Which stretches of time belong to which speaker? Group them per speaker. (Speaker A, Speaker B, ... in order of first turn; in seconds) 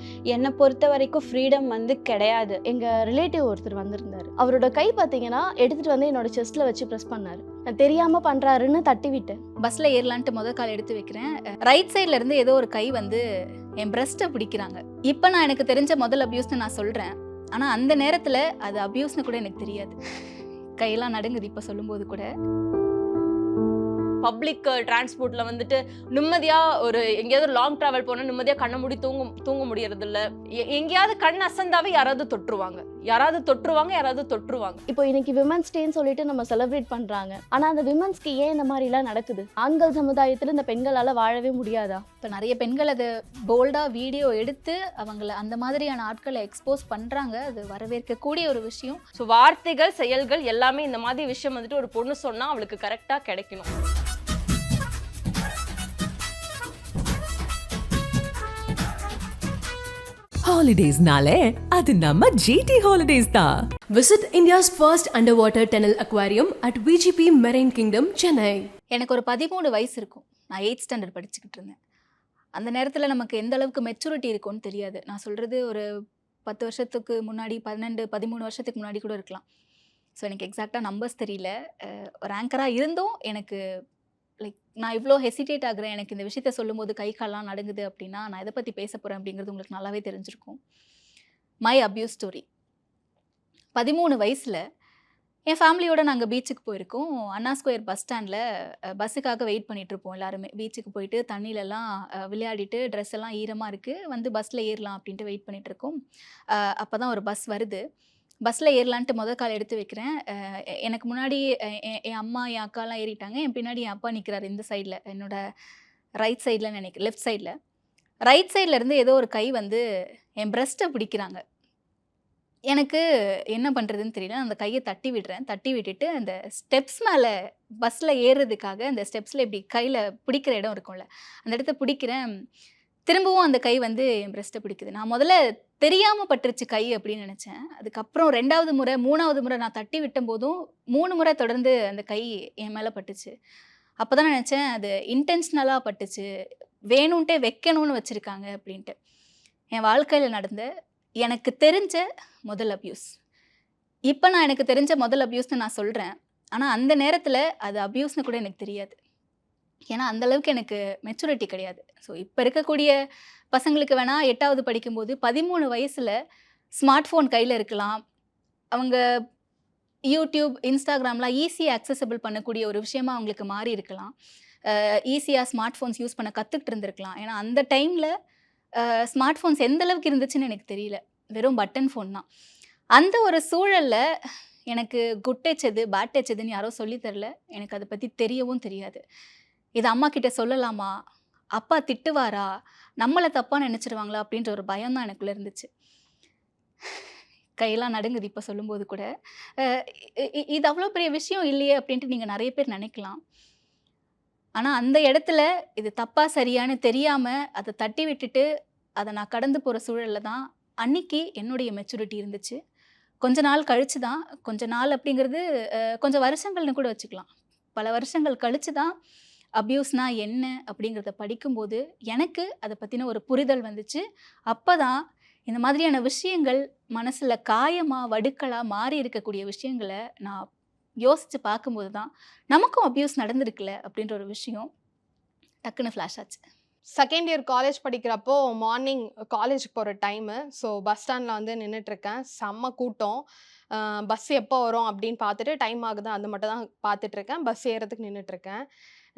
Speaker A: 0.3-2.6
Speaker B: 2.7-9.4, 34.9-42.0
Speaker C: 9.6-13.2, 13.8-20.0, 20.8-22.3, 42.2-49.0, 68.9-71.8, 72.5-75.8, 76.5-79.4, 80.2-83.6, 84.4-90.6, 91.7-92.4, 93.8-94.6, 95.5-98.4, 98.9-106.0, 106.5-107.8, 108.5-115.4, 116.2-117.5, 118.3-119.8, 120.4-121.4, 122.7-123.0, 123.5-127.3, 127.8-132.2, 133.1-143.3, 144.0-146.2, 146.9-148.9, 149.7-150.7, 151.2-153.1, 154.1-159.0, 159.9-162.9, 163.5-166.1, 166.8-168.0, 170.1-174.1, 174.7-178.1, 178.8-182.2, 183.0-184.0, 184.7-189.0, 189.8-190.9, 191.6-192.5, 193.0-195.7, 197.6-199.1, 199.6-203.2, 204.6-208.5, 209.0-212.6, 213.2-215.4, 216.0-218.9, 219.6-230.5, 231.0-234.7, 235.6-236.4
Speaker D: 24.2-34.8, 49.2-53.7
Speaker E: 60.5-63.6
Speaker F: 63.9-68.7
Speaker G: 237.0-243.2, 243.7-248.6